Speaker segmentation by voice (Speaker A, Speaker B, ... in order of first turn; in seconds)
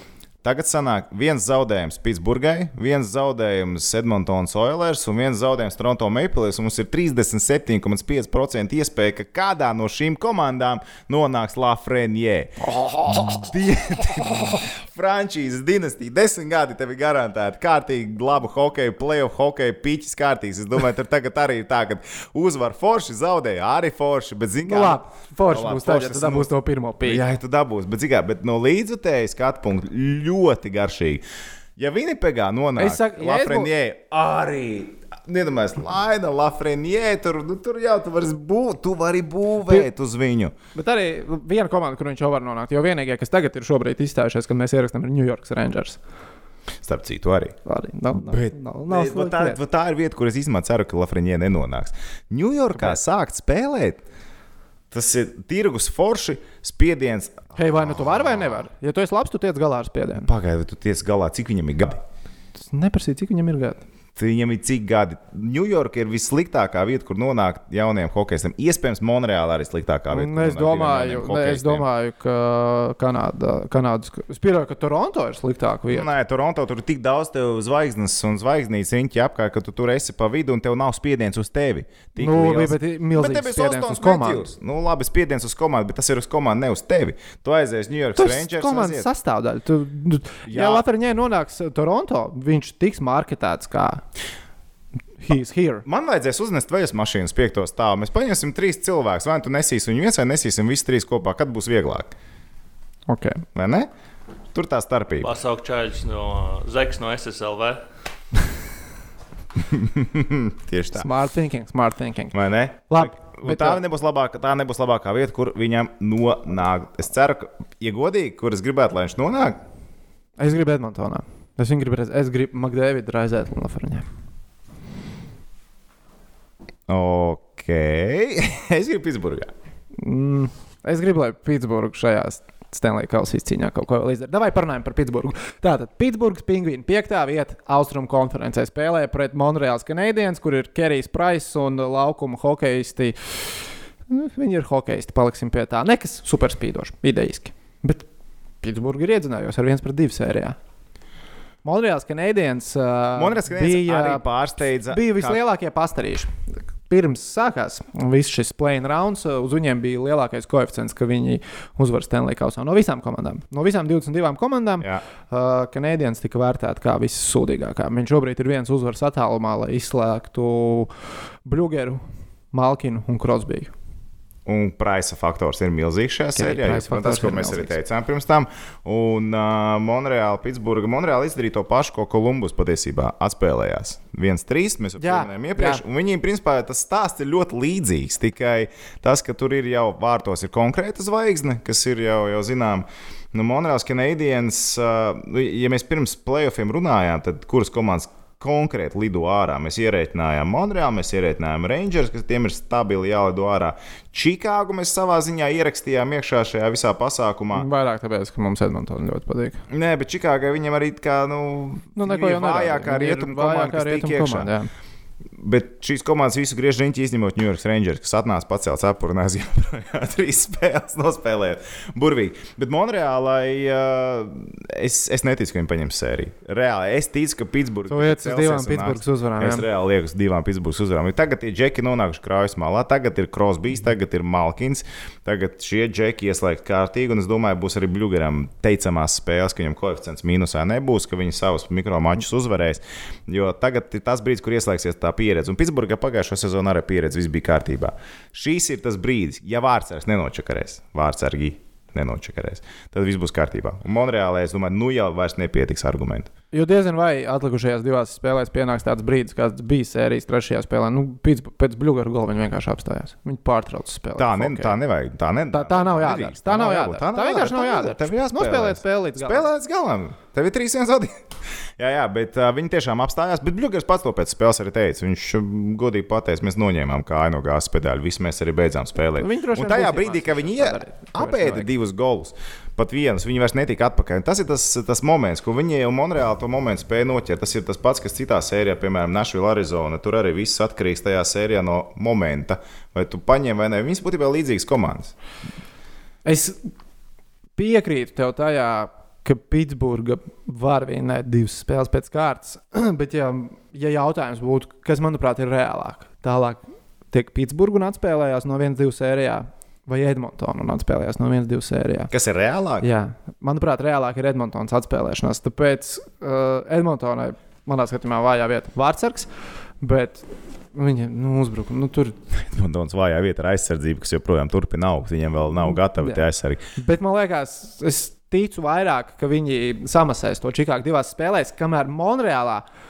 Speaker A: 0.4-26.5, 27.0-31.2, 31.8-40.5, 46.8-47.5, 48.1-54.0, 54.9-58.6, 60.2-62.0, 64.2-71.8, 75.9-89.1, 90.5-90.8, 95.8-102.1, 103.5-103.9, 104.5-105.3, 109.6-111.1, 112.3-119.6, 126.9-129.5, 153.1-155.4, 174.4-207.7, 209.7-214.5, 215.4-256.3, 264.1-271.2, 271.8-295.1, 312.1-312.8, 322.4-326.6
Speaker B: 24.6-27.2, 32.8-33.7, 40.7-46.0, 47.6-49.6, 57.5-60.3, 62.6-63.8, 70.1-76.1, 82.2-84.5, 88.2-94.0, 95.2-95.8, 103.1-103.4, 110.9-112.3, 112.9-113.8, 120.4-124.0, 130.0-148.0, 148.6-150.6, 151.6-170.9, 171.4-172.0, 172.5-173.7, 176.3-177.8, 185.0-185.8, 207.5-209.6, 211.9-214.7, 227.9-229.7, 256.5-264.8, 265.5-269.5, 279.2-281.7, 296.2-296.7, 297.6-312.1, 312.8-319.3, 319.8-322.2, 325.7-326.2, 326.8-332.6
Speaker C: 105.2-107.8